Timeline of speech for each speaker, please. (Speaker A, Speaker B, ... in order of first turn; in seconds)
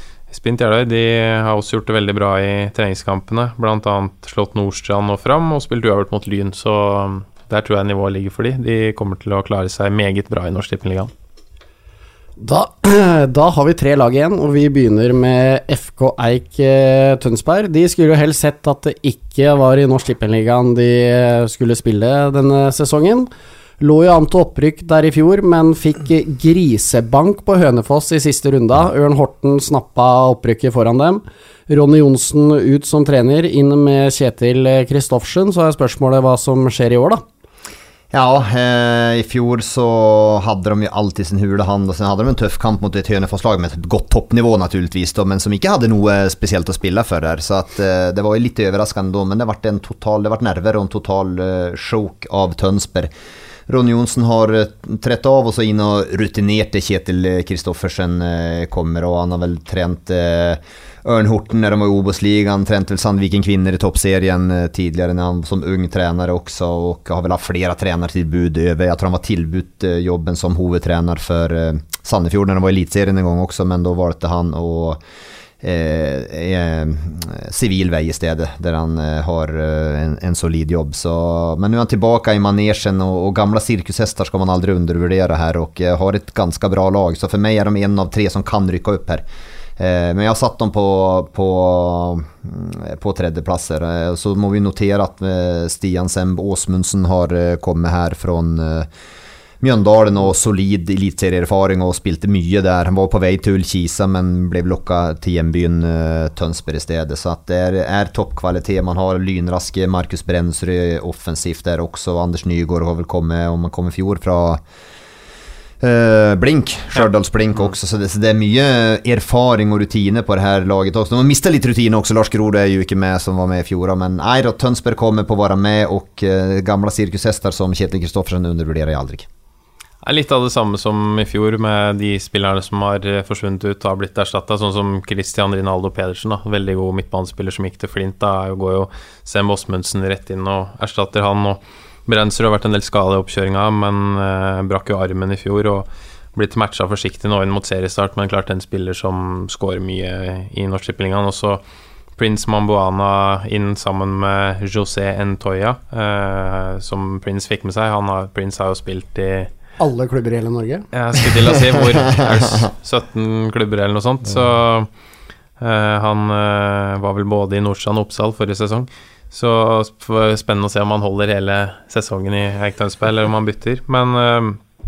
Speaker A: 0.3-11.1, 130.0-151.6, 152.2-159.5, 160.9-164.9, 165.6-174.6
Speaker B: 12.4-23.3, 23.8-37.2, 159.8-160.9
Speaker C: 38.1-53.1, 53.7-75.0, 75.6-89.2, 89.8-98.9, 99.6-114.6, 115.8-129.3, 162.2-162.7